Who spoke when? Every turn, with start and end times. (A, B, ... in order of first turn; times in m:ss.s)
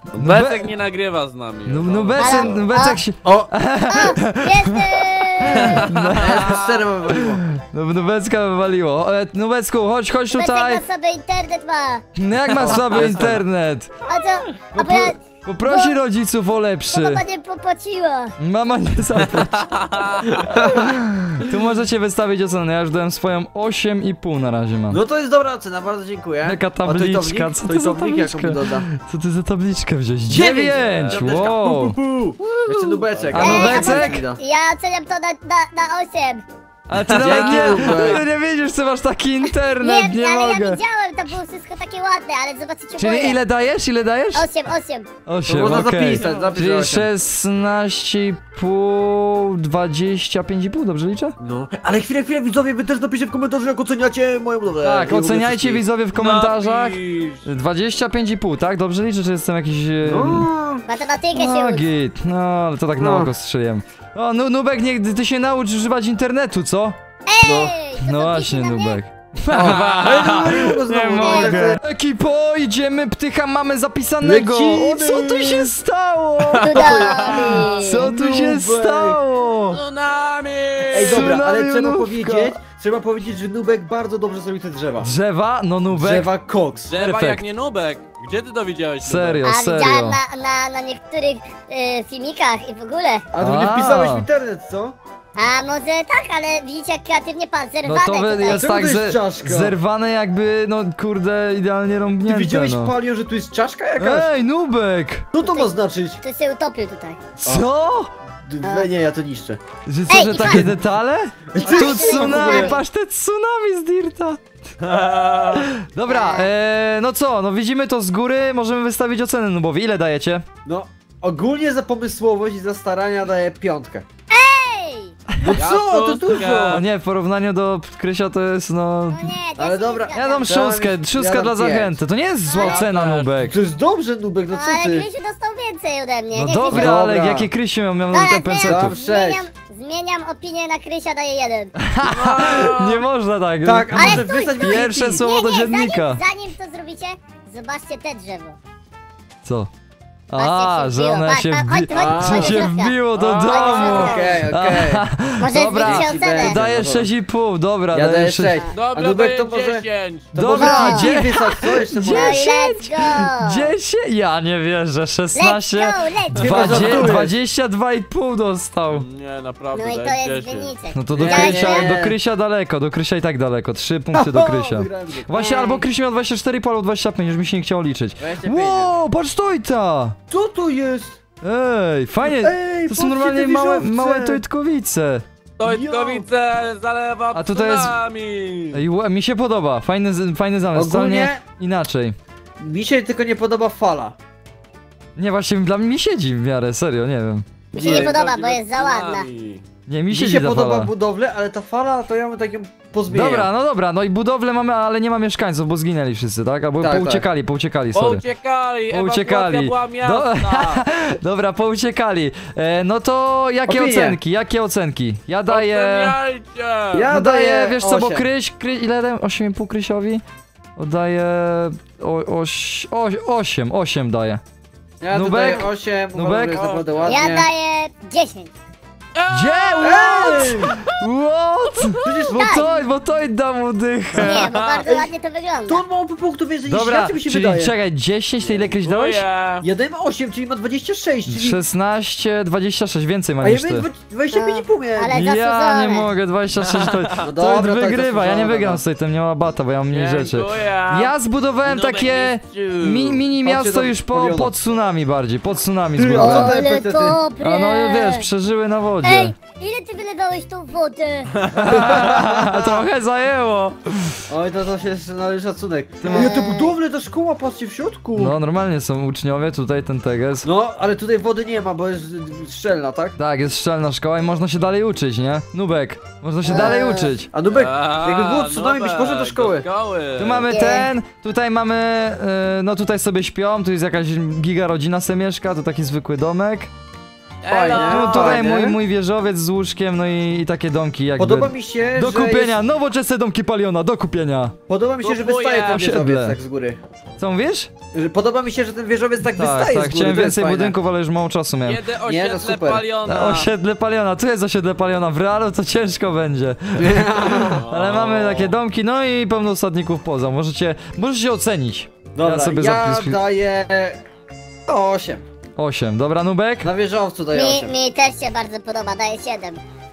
0:00.1-0:02.6 A
0:00.1-0:00.8 B
0:01.6-0:10.8 B
0:02.2-0:03.0 C
0:03.2-0:03.5 D
0:03.8-0:05.8 C
0:05.7-0:06.8 A
0:05.8-0:07.4 D
0:10.3-0:12.0 C
0:12.1-0:13.9 B
0:12.8-0:13.3 A
0:14.1-0:15.9 C
0:14.7-0:17.2 B
0:16.9-0:18.3 C
0:18.4-0:19.8 B
0:19.8-0:20.3 A
0:20.3-0:21.0 D
0:20.5-0:25.0 B
0:24.9-0:28.8 D
0:26.4-0:34.2 B
0:30.3-0:34.4 D
0:30.7-0:31.5 A
0:33.4-0:36.4 C
0:36.9-0:40.8 B
0:37.1-0:38.2 D
0:37.1-0:38.2 A
0:39.8-0:43.4 C
0:43.0-0:44.5 B
0:44.3-0:45.1 C
0:45.2-0:51.3 B
0:45.5-0:47.1 D
0:46.1-0:46.5 A
0:51.4-0:55.8 D
0:54.8-1:00.5 B
0:56.1-0:57.4 A
1:00.0-1:00.8 D
1:00.9-1:01.8 C
1:01.3-1:07.0 B
1:03.0-1:03.3 D
1:07.3-1:09.0 C
1:07.4-1:07.8 D
1:07.9-1:19.8 B
1:09.5-1:11.8 D
1:09.6-1:10.5 A
1:11.2-1:11.7 C
1:14.2-1:15.7 D
1:16.6-1:18.1 C
1:16.6-1:19.2 D
1:19.7-1:21.4 A
1:20.9-1:22.6 B
1:20.9-1:25.1 D
1:25.0-1:26.3 B
1:25.9-1:26.9 D
1:26.9-1:29.4 A
1:26.9-1:27.4 B
1:29.0-1:30.2 B
1:29.4-1:33.2 C
1:33.3-1:35.0 D
1:33.4-1:34.3 B
1:35.4-1:38.6 C
1:37.8-1:43.0 B
1:38.4-1:39.8 D
1:42.2-1:44.3 D
1:44.0-1:45.3 B
1:45.3-1:46.2 D
1:45.4-1:47.2 C
1:47.4-1:48.1 B
1:48.4-1:49.6 D
1:48.6-1:48.9 C
1:49.8-1:54.5 B
1:50.1-1:50.7 C
1:51.5-1:52.8 D
1:51.6-1:52.8 C
1:54.8-1:55.6 A
1:55.6-2:00.4 B
1:56.1-1:56.5 C
2:00.6-2:04.0 D
2:04.3-2:05.2 C
2:05.4-2:06.8 D
2:05.6-2:06.8 A
2:06.6-2:09.4 B
2:09.1-2:10.5 C
2:09.6-2:12.0 D
2:10.1-2:13.6 B
2:12.5-2:12.8 C
2:12.6-2:13.3 A
2:13.4-2:15.1 D
2:14.5-2:17.0 C
2:16.3-2:19.0 B
2:16.7-2:17.5 D
2:18.1-2:21.7 C
2:18.6-2:19.5 D
2:21.8-2:26.2 B
2:22.0-2:23.0 A
2:23.6-2:25.3 D
2:23.9-2:28.6 C
2:29.4-2:29.7 B
2:30.3-2:38.6 B
2:30.4-2:34.3 C
2:31.9-2:32.7 D
2:33.2-2:34.4 A
2:33.3-2:37.1 D
2:35.4-2:36.6 C
2:37.9-2:42.4 D
2:38.7-2:40.3 A
2:40.3-2:49.0 B
2:40.6-2:41.1 C
2:42.0-2:43.7 C
2:45.4-2:47.2 C
2:46.3-2:47.4 D
2:48.9-2:50.7 A
2:49.7-2:52.0 C
2:50.9-3:00.2 B
2:51.2-2:52.2 D
2:54.1-2:55.8 D
2:55.3-2:55.7 C
2:58.2-2:58.9 D
3:00.3-3:01.2 D
3:01.4-3:05.2 B
3:02.2-3:04.4 D
3:05.6-3:08.8 A
3:05.6-3:06.3 D
3:07.3-3:07.9 B
3:08.7-3:12.2 B
3:10.7-3:11.4 D
3:12.6-3:14.2 D
3:15.2-3:17.5 B
3:17.7-3:19.3 C
3:17.7-3:18.1 D
3:17.8-3:19.6 A
3:19.9-3:20.9 B
3:20.1-3:23.5 D
3:23.1-3:28.2 B
3:26.8-3:27.2 D
3:27.9-3:30.8 A
3:28.9-3:36.2 B
3:33.6-3:34.2 D
3:35.5-3:37.1 A
3:36.9-3:38.3 D
3:37.1-3:40.2 B
3:40.8-3:44.4 B
3:45.0-3:47.5 D
3:45.1-3:47.1 B
3:47.0-3:48.5 C
3:49.2-3:50.7 A
3:49.3-3:54.6 B
3:49.8-3:50.8 D
3:52.0-3:52.6 D
3:52.3-3:52.7 C
3:54.2-3:55.8 C
3:54.3-3:54.8 A
3:55.7-3:57.7 D
3:56.6-3:59.3 B
3:58.8-3:59.6 A
3:59.6-4:01.6 D
4:01.3-4:03.9 B
4:03.4-4:05.2 D
4:04.3-4:06.1 C
4:05.1-4:16.6 B
4:06.6-4:07.3 A
4:07.2-4:08.8 D
4:09.9-4:11.1 A
4:11.6-4:13.2 A
4:13.4-4:14.5 D
4:16.0-4:17.2 D
4:16.2-4:18.2 C
4:17.4-4:19.3 B
4:19.0-4:21.4 C
4:21.5-4:24.2 B
4:21.8-4:22.7 D
4:24.3-4:28.3 D
4:26.0-4:26.4 B
4:26.0-4:26.7 C
4:28.2-4:30.5 B
4:30.4-4:33.2 D
4:33.2-4:37.3 B
4:36.4-4:37.1 C
4:36.5-4:36.8 D
4:37.3-4:39.7 D
4:37.5-4:40.5 A
4:40.2-4:46.7 B
4:40.5-4:40.9 C
4:47.4-4:48.4 A
4:47.5-4:48.8 D
4:47.7-4:54.6 B
4:51.2-4:52.6 D
4:54.7-4:56.8 D
4:55.0-4:55.9 A
4:55.7-4:56.4 B
4:57.2-4:57.7 B
4:57.9-5:00.8 D
4:59.2-5:01.8 B
5:01.6-5:03.5 A
5:02.0-5:02.9 D
5:03.0-5:13.2 B
5:06.8-5:07.7 D
5:07.6-5:08.5 A
5:12.2-5:14.0 D
5:14.7-5:15.2 D
5:15.6-5:16.7 B
5:16.6-5:17.7 D
5:17.3-5:19.6 C